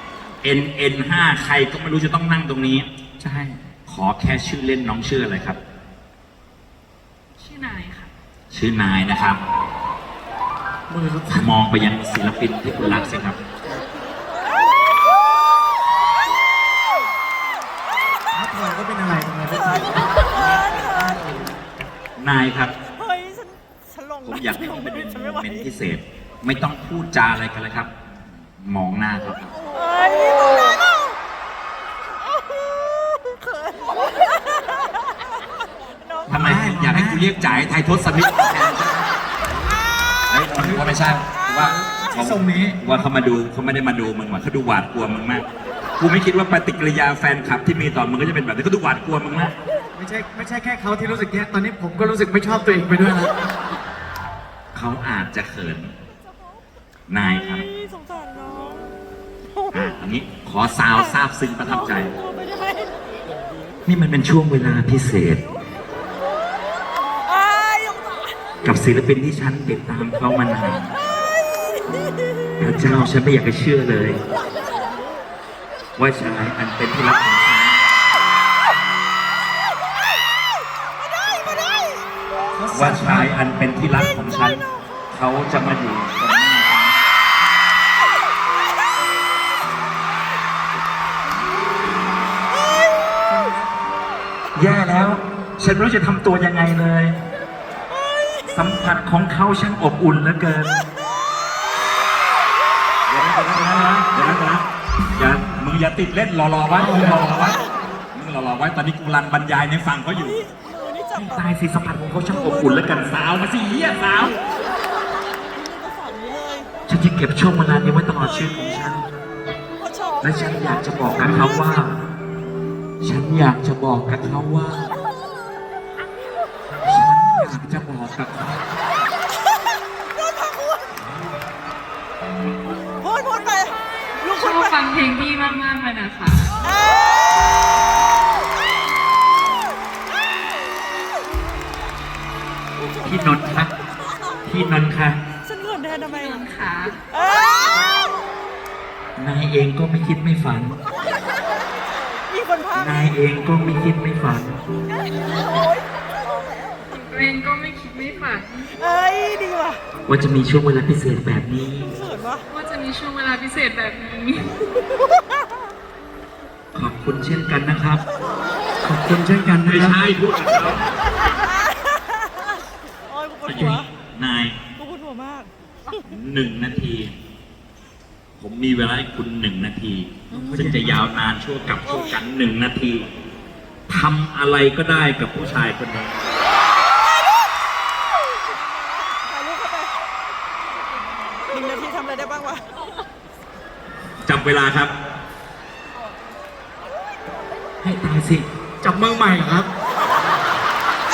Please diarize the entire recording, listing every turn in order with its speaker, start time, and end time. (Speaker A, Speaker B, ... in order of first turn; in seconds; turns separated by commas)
Speaker A: 0.4-2.9, Speaker B: 3.2-3.6, Speaker A: 3.9-5.6, Speaker C: 7.4-8.1, Speaker A: 8.5-9.4, Speaker B: 10.9-11.5, Speaker A: 11.3-13.4, Speaker B: 18.3-21.6, Speaker D: 20.4-20.9, Speaker A: 22.2-22.7, Speaker D: 22.9-25.7, Speaker A: 24.2-27.9, Speaker A: 28.6-29.5, Speaker D: 29.6-30.8, Speaker D: 33.3-33.9, Speaker B: 36.3-37.3, Speaker A: 36.3-39.1, Speaker A: 40.3-45.5, Speaker B: 40.6-43.1, Speaker A: 46.0-49.5, Speaker B: 50.0-53.3, Speaker A: 54.7-55.9, Speaker A: 57.1-57.7, Speaker D: 57.4-58.9, Speaker A: 59.7-62.1, Speaker D: 61.9-62.9, Speaker A: 63.9-65.4, Speaker D: 67.2-68.4, Speaker A: 68.6-71.0, Speaker A: 72.6-74.2, Speaker A: 76.0-77.8, Speaker B: 82.5-83.3, Speaker A: 82.7-87.0, Speaker A: 94.5-97.2, Speaker A: 98.5-100.8, Speaker A: 103.1-107.6, Speaker B: 103.5-104.0, Speaker B: 106.8-107.3, Speaker A: 108.1-110.4, Speaker D: 110.3-111.5, Speaker A: 111.2-114.4, Speaker D: 112.3-113.0, Speaker D: 115.5-116.7, Speaker A: 116.9-119.1, Speaker D: 119.8-121.8, Speaker A: 120.2-122.0, Speaker A: 123.0-125.0, Speaker A: 126.8-128.7, Speaker D: 133.0-133.8, Speaker C: 134.2-136.7, Speaker D: 134.3-134.6, Speaker D: 136.7-137.5, Speaker D: 142.8-143.4, Speaker A: 143.0-143.7, Speaker A: 144.5-145.2, Speaker D: 145.4-146.5, Speaker C: 146.1-147.0, Speaker D: 147.1-148.2, Speaker A: 149.2-150.8, Speaker D: 152.1-153.2, Speaker A: 152.7-154.6, Speaker D: 154.9-156.7, Speaker C: 156.8-158.7, Speaker D: 158.7-159.8, Speaker A: 160.1-161.9, Speaker D: 161.9-162.5, Speaker C: 162.5-164.5, Speaker A: 166.7-168.0, Speaker B: 168.8-170.0, Speaker A: 169.7-170.9, Speaker D: 173.1-173.9, Speaker A: 173.5-174.6, Speaker D: 174.8-175.5, Speaker A: 176.1-177.2, Speaker A: 178.4-183.1, Speaker D: 180.3-180.7, Speaker B: 180.3-181.0, Speaker D: 181.9-182.2, Speaker A: 183.9-186.4, Speaker D: 188.8-189.9, Speaker D: 191.4-192.6, Speaker A: 194.2-194.9, Speaker A: 197.8-198.5, Speaker B: 198.8-199.7